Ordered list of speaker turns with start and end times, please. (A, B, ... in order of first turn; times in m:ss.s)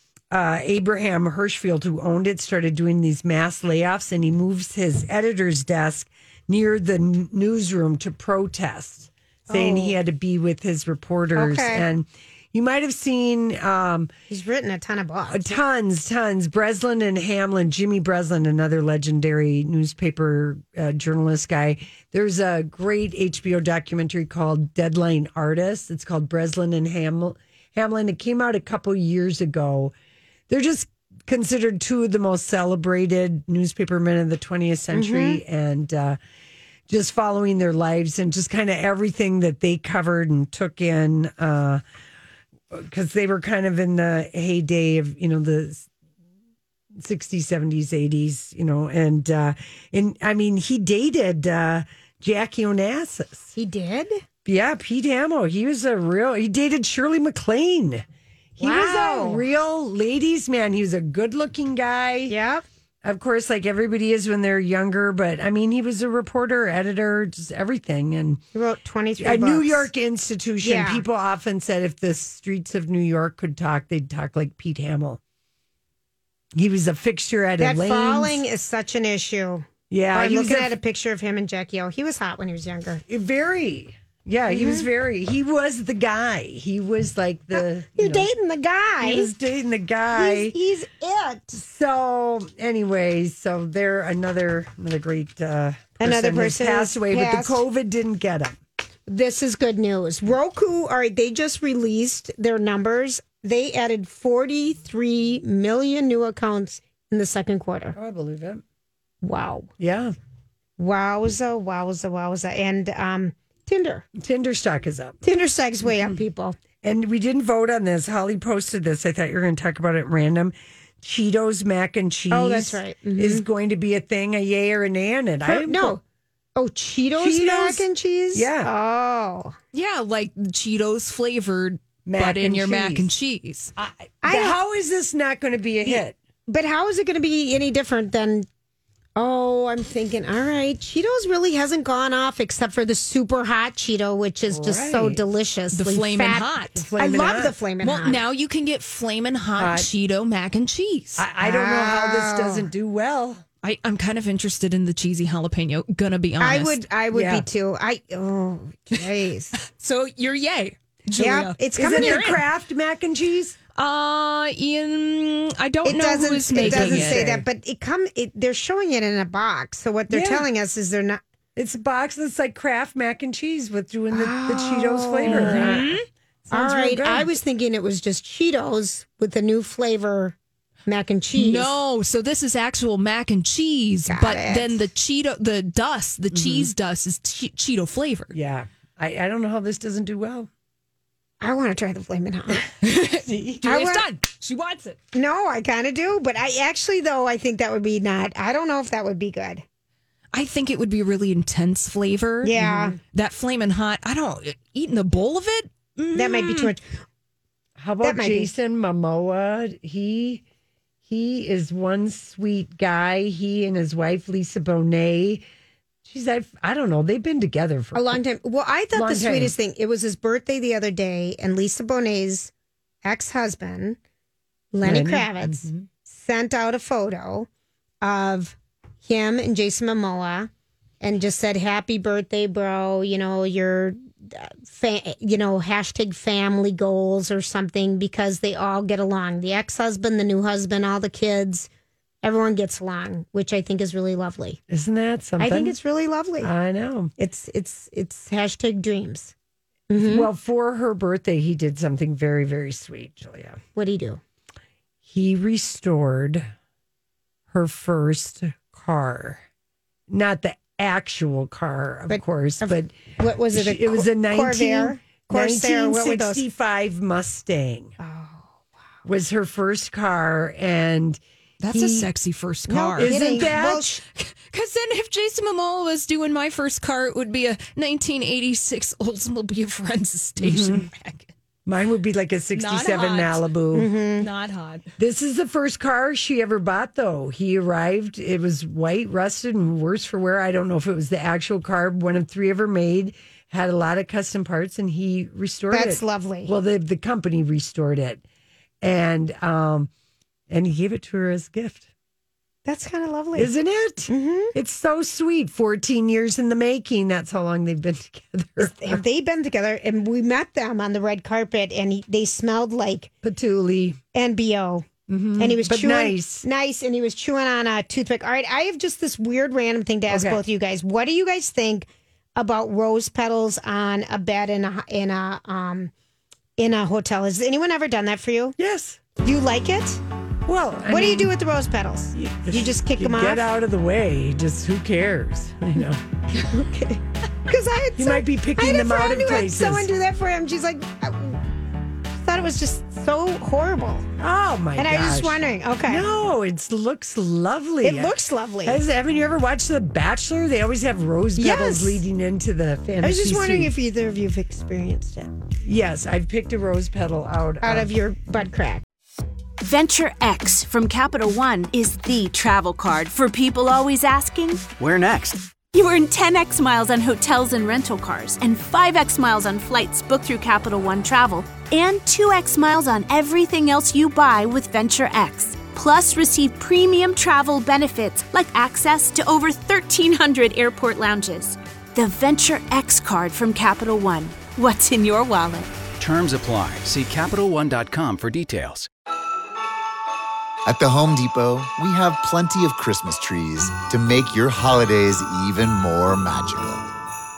0:00.3-0:14.1 A
0:09.5-0:10.0 B
0:11.4-0:11.8 B
0:14.3-0:15.6 B
0:15.3-0:29.9 A
0:30.5-0:36.2 A
0:34.9-0:35.4 B
0:36.9-0:41.8 A
0:42.7-0:45.9 A
0:47.0-0:53.5 A
0:53.6-0:54.2 B
0:54.4-0:58.0 A
0:58.6-1:02.4 A
0:58.6-0:59.4 B
1:02.3-1:02.6 B
1:03.0-1:08.4 A
1:08.5-1:09.9 B
1:09.2-1:15.2 A
1:10.6-1:11.0 B
1:16.6-1:18.4 A
1:17.6-1:23.0 B
1:19.9-1:20.8 A
1:23.1-1:28.3 A
1:24.5-1:24.9 B
1:28.0-1:29.3 B
1:29.0-1:30.6 A
1:30.1-1:31.6 B
1:31.5-1:38.6 A
1:36.0-1:37.6 B
1:39.1-1:48.0 B
1:47.9-1:48.6 A
1:49.2-1:49.7 B
1:49.8-1:50.1 A
1:50.8-1:54.1 B
1:54.2-1:55.2 A
1:55.2-1:56.6 B
1:56.8-2:06.0 A
2:02.3-2:03.5 B
2:05.4-2:06.0 B
2:06.6-2:09.6 B
2:07.2-2:08.7 A
2:09.7-2:13.7 C
2:12.0-2:13.1 A
2:13.8-2:16.2 A
2:14.2-2:14.6 B
2:15.8-2:18.5 B
2:19.2-2:28.2 B
2:24.5-2:25.2 A
2:25.7-2:26.8 C
2:26.7-2:27.6 A
2:27.8-2:31.2 C
2:29.6-2:29.9 A
2:31.2-2:33.4 A
2:31.4-2:32.7 B
2:33.6-2:36.8 C
2:36.4-2:39.6 B
2:37.1-2:37.5 A
2:39.7-2:42.4 C
2:41.2-2:42.4 B
2:41.8-2:43.6 A
2:43.8-2:47.2 C
2:45.8-2:51.2 B
2:46.5-2:47.5 A
2:50.1-2:50.5 A
2:51.6-2:55.9 A
2:54.1-2:55.8 B
2:55.2-2:56.1 C
2:56.5-2:57.3 A
2:56.5-3:01.7 B
3:01.4-3:08.4 C
3:04.1-3:04.8 B
3:06.3-3:06.7 A
3:08.3-3:10.5 A
3:11.4-3:12.7 B
3:12.8-3:15.0 C
3:13.2-3:13.6 A
3:13.6-3:14.1 B
3:15.1-3:19.6 B
3:20.3-3:26.7 C
3:22.4-3:23.0 B
3:22.5-3:22.9 A
3:26.1-3:26.8 B
3:27.8-3:30.4 A
3:28.0-3:28.5 B
3:31.1-3:35.4 A
3:36.0-3:38.2 A
3:37.9-3:42.5 B
3:38.9-3:39.6 A
3:43.0-3:44.0 B
3:44.7-3:47.5 B
3:44.8-3:45.7 A
3:48.0-3:50.5 B
3:51.0-4:01.7 B
4:02.2-4:04.6 B
4:04.7-4:05.8 A
4:05.4-4:06.5 B
4:06.4-4:07.1 A
4:07.2-4:09.3 B
4:09.9-4:10.3 B
4:10.0-4:13.6 A
4:13.8-4:14.2 B
4:15.0-4:16.4 A
4:17.5-4:19.4 A
4:20.1-4:22.9 A
4:22.1-4:26.4 B
4:23.5-4:28.0 A
4:28.0-4:28.6 B
4:29.0-4:32.1 A
4:31.6-4:41.3 C
4:32.7-4:34.0 B
4:33.0-4:33.9 A
4:40.4-4:40.9 A
4:41.7-4:43.9 A
4:42.5-4:43.5 C
4:43.7-4:44.3 B
4:44.2-4:44.9 C
4:45.0-4:58.2 A
4:55.7-4:56.5 B
4:58.8-4:59.9 A
5:00.5-5:01.9 A
5:02.6-5:03.5 B
5:03.4-5:09.0 A
5:04.1-5:04.5 B
5:08.6-5:13.1 B
5:13.2-5:14.0 A
5:14.1-5:25.9 B
5:15.1-5:15.5 C
5:15.2-5:16.4 A
5:20.1-5:20.4 A
5:26.6-5:28.6 B
5:28.6-5:29.0 A
5:29.2-5:30.0 B
5:30.5-5:31.3 A
5:30.9-5:33.4 B
5:32.1-5:37.0 A
5:37.4-5:41.4 B
5:38.0-5:39.9 A
5:42.2-5:44.1 B
5:44.2-5:48.1 A
5:44.8-5:46.1 B
5:47.8-5:48.8 B
5:48.6-5:53.7 A
5:51.4-5:52.0 B
5:53.0-5:55.3 B
5:55.6-5:57.9 A
5:57.6-5:58.8 B
5:59.6-6:04.8 D
6:04.8-6:05.5 E
6:05.6-6:25.7 D
6:26.0-6:28.9 E
6:30.6-6:36.9 F